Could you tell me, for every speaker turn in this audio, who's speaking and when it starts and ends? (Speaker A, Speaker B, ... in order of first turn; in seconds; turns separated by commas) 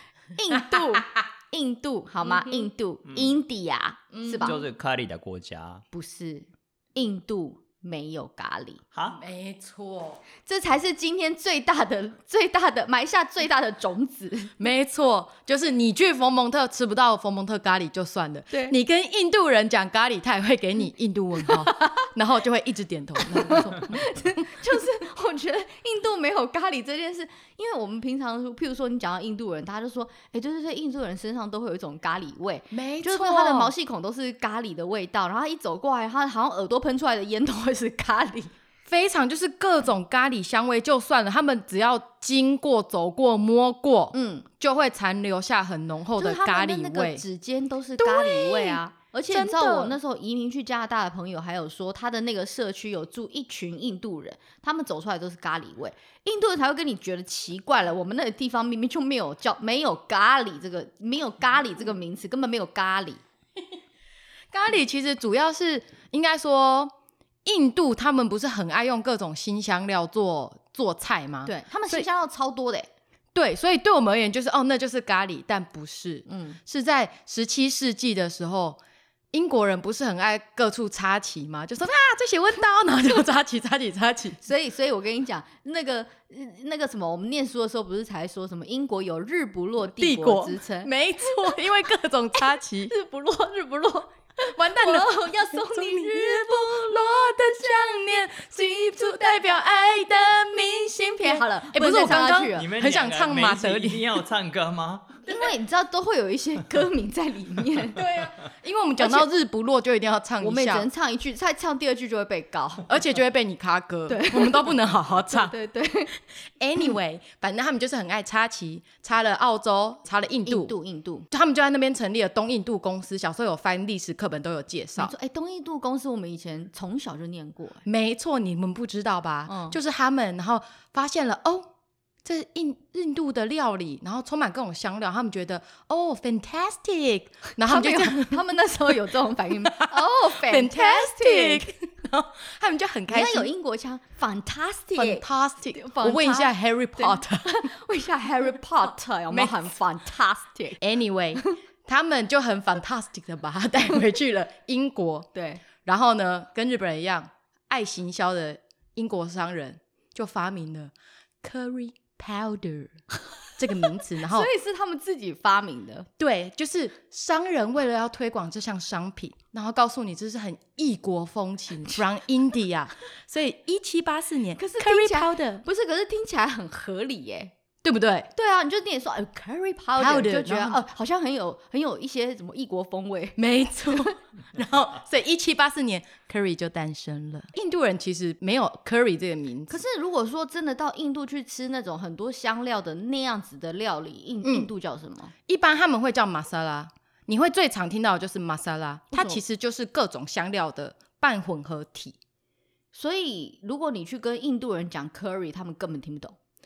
Speaker A: 0.3-4.6, Speaker B: 2.2-2.7, Speaker C: 3.1-3.3, Speaker B: 4.1-4.6, Speaker C: 4.4-5.8, Speaker A: 5.9-8.8, Speaker C: 8.9-9.2, Speaker B: 9.1-10.2, Speaker A: 10.4-14.5, Speaker B: 14.6-24.1, Speaker A: 21.7-22.1, Speaker A: 23.3-38.5, Speaker B: 32.7-33.7, Speaker B: 38.9-47.2, Speaker A: 44.1-44.5, Speaker A: 46.2-63.2, Speaker B: 48.0-49.9, Speaker B: 64.5-66.9, Speaker B: 67.4-72.1, Speaker A: 71.4-72.9, Speaker B: 73.3-78.8, Speaker A: 76.3-76.6, Speaker B: 79.3-84.4, Speaker A: 84.4-90.9, Speaker B: 90.0-92.9, Speaker A: 92.9-97.4, Speaker B: 94.5-104.2, Speaker A: 99.0-99.6, Speaker A: 100.8-102.7, Speaker C: 102.5-105.1, Speaker A: 105.2-108.0, Speaker B: 108.0-110.9, Speaker A: 109.0-109.3, Speaker A: 110.4-112.9, Speaker B: 112.9-115.5, Speaker A: 114.1-114.8, Speaker A: 115.3-116.1, Speaker B: 116.6-120.7, Speaker A: 120.5-121.2, Speaker B: 121.3-125.1, Speaker A: 125.0-127.8, Speaker B: 127.8-131.7, Speaker A: 129.5-129.8, Speaker B: 132.2-138.4, Speaker A: 137.6-141.7, Speaker B: 139.6-143.5, Speaker A: 143.1-150.8, Speaker B: 144.9-147.7, Speaker B: 149.3-149.8, Speaker B: 150.8-155.3, Speaker A: 155.3-155.6, Speaker B: 155.8-160.9, Speaker B: 161.4-163.0, Speaker B: 163.5-164.5, Speaker A: 164.3-166.1, Speaker B: 166.2-175.6, Speaker A: 174.6-177.5, Speaker B: 177.8-178.3, Speaker A: 178.3-183.4, Speaker B: 180.0-180.8, Speaker B: 183.4-189.7, Speaker A: 189.7-195.3, Speaker B: 194.4-194.7, Speaker B: 195.5-202.2, Speaker A: 199.1-199.4, Speaker A: 202.9-206.3